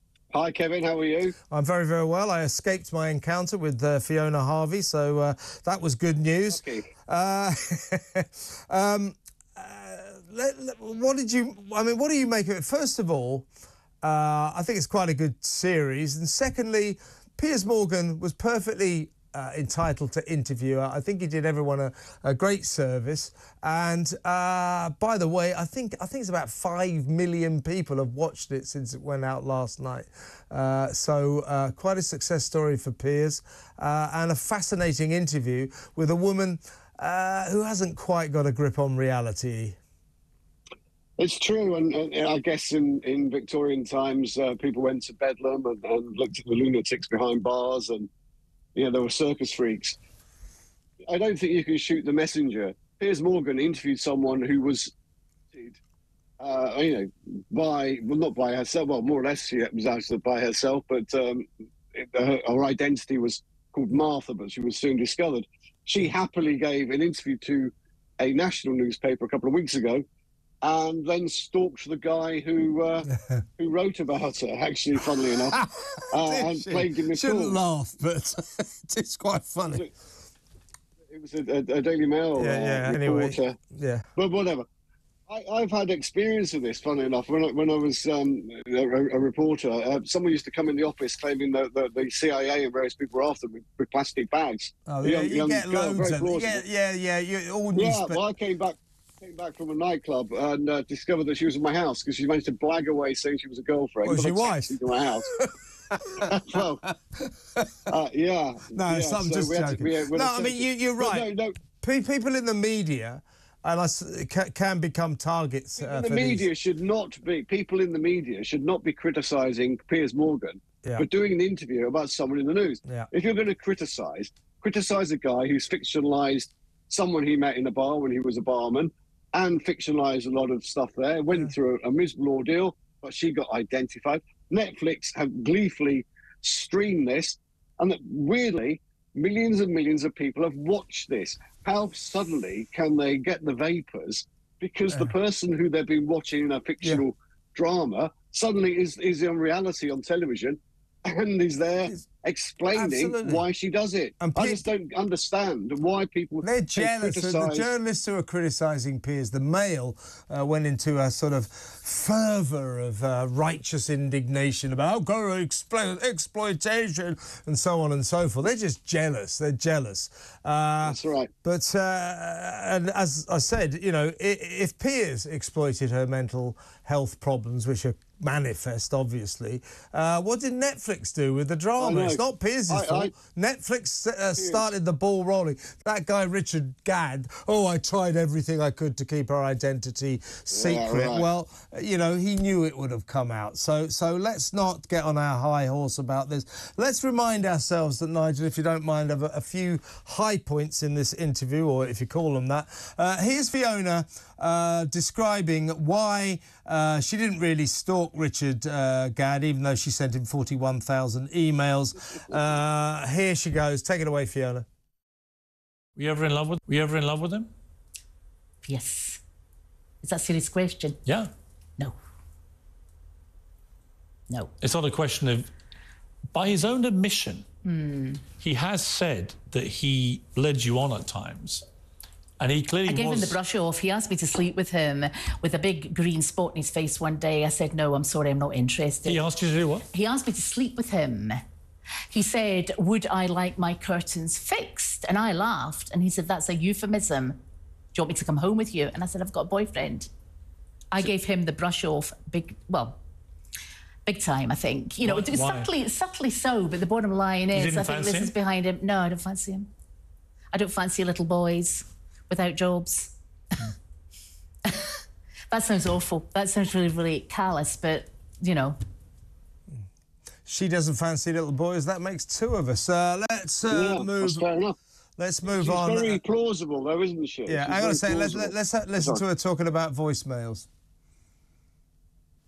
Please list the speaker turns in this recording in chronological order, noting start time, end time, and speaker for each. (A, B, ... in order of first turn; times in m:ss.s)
0:00.3-0:01.3 A
0:01.5-0:13.5 B
0:06.5-0:06.9 A
0:14.0-0:39.8 B
0:41.2-0:48.1 A
0:48.8-0:50.0 A
0:51.1-0:54.9 A
0:55.5-0:55.8 A
0:56.4-1:10.0 A
1:10.6-1:13.1 A
1:13.1-1:13.4 B
1:13.6-1:15.6 A
1:15.6-1:19.8 B
1:16.1-1:17.6 A
1:21.1-1:23.6 A
1:22.4-1:24.1 B
1:24.2-1:24.7 A
1:25.3-1:36.6 A
1:34.9-1:38.2 B
1:37.8-1:45.3 A
1:44.0-1:46.2 B
1:46.2-1:46.8 A
1:46.9-1:47.8 B
1:47.9-1:51.6 A
1:48.8-1:56.5 B
1:55.8-2:37.7 A
2:32.7-2:33.5 B
2:34.2-2:34.6 B
2:36.4-3:34.7 B
2:50.8-2:51.3 A
3:01.8-3:03.1 A
3:04.4-3:04.7 A
3:10.5-3:11.3 A
3:36.0-3:37.5 C
3:38.6-3:39.2 D
3:40.0-3:41.0 D
3:44.6-3:45.5 C
3:46.3-3:47.4 C
3:47.6-3:48.3 D
3:48.4-3:51.6 C
3:52.4-3:53.4 C
3:52.9-3:59.2 D
3:59.1-3:59.9 C
3:59.9-4:01.4 D
4:02.1-4:07.4 D
4:07.9-4:10.1 D
4:10.9-4:13.0 D
4:14.1-4:19.7 D
4:15.0-4:15.7 C
4:17.5-4:18.3 C
4:20.5-4:23.7 D
4:24.7-4:25.0 D
4:25.5-4:28.8 D
4:30.4-4:34.5 B
4:33.7-4:34.8 A
4:35.2-4:36.2 B
4:35.4-4:39.2 A
4:37.5-4:40.7 B